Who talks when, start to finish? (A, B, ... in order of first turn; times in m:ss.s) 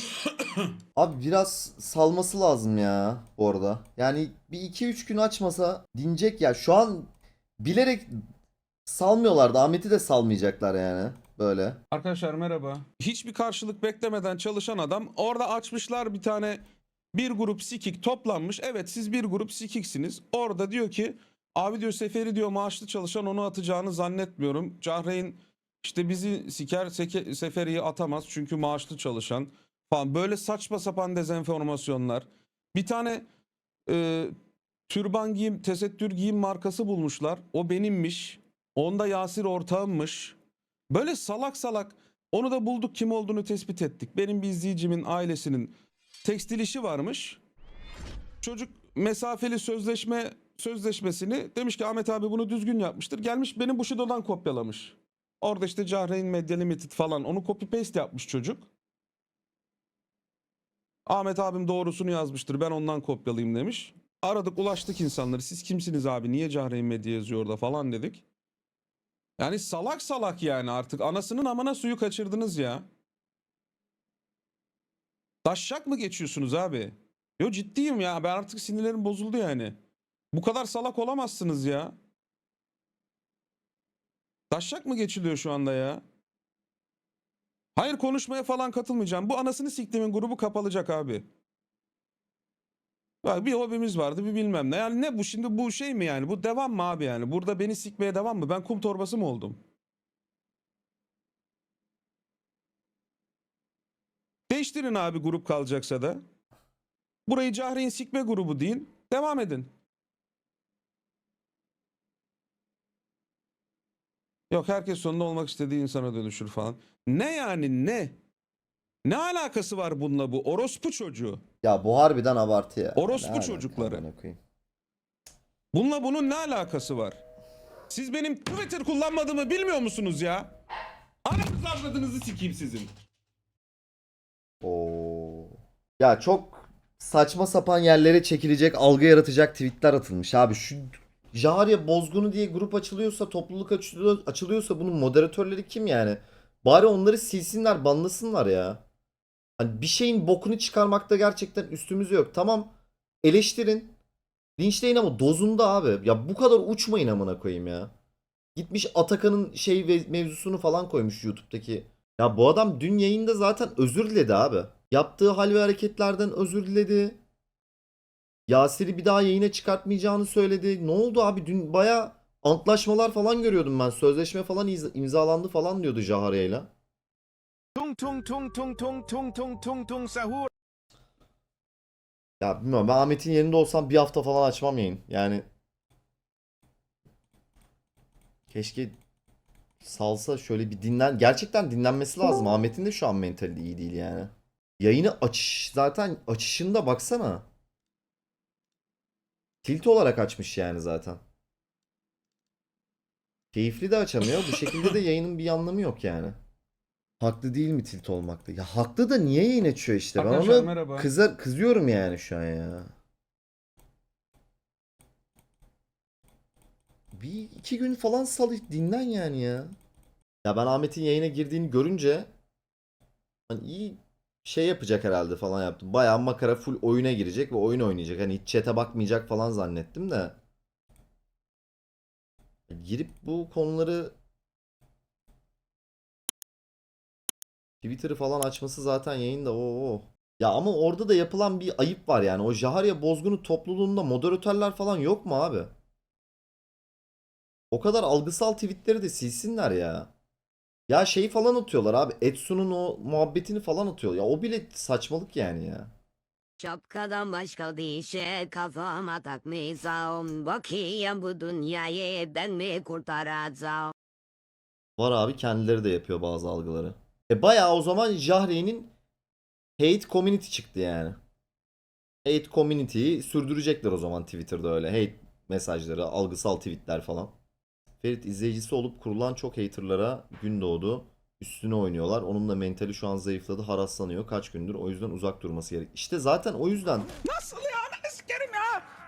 0:00.2-0:00.7 A
0:01.0-0:08.2 B
0:08.9-0:11.8 B
0:11.9-0:16.6 A
0:17.1-0:33.2 A
0:33.9-0:34.3 A
0:34.9-0:40.4 A
0:40.9-0:47.4 A
0:48.4-0:58.6 A
1:01.1-1:08.2 A
1:09.4-1:12.9 A
1:15.4-1:19.8 A
1:20.3-1:22.0 A
1:24.5-1:26.0 A
1:27.8-1:31.3 A
1:33.2-1:39.6 A
1:44.5-1:46.2 A
1:47.2-1:49.7 A
1:54.5-1:58.1 A
1:59.0-2:01.4 A
2:01.6-2:04.4 B
2:03.0-2:04.0 A
2:05.7-2:07.2 A
2:07.9-2:10.5 A
2:11.2-2:12.9 A
2:14.6-2:28.8 B
2:29.6-2:34.0 B
2:34.6-2:37.9 B
2:38.6-2:47.2 B
2:48.5-2:56.7 B
2:57.8-3:00.5 C
3:02.4-3:05.4 B
3:08.5-3:08.9 B
3:09.8-3:17.5 B
3:19.6-3:21.2 B
3:23.5-3:26.4 B
3:27.2-3:32.9 B
3:30.2-3:31.1 A
3:37.1-3:39.7 B
3:40.4-3:42.3 B
3:43.5-3:50.4 B
3:52.7-3:54.1 B
3:57.8-4:05.7 B
4:07.7-4:10.1 B
4:10.9-4:15.9 B
4:16.6-4:23.9 D
4:25.0-4:28.9 B
4:29.8-4:31.2 B
4:32.2-4:37.3 B
4:38.0-4:47.1 B
4:47.2-4:48.8 A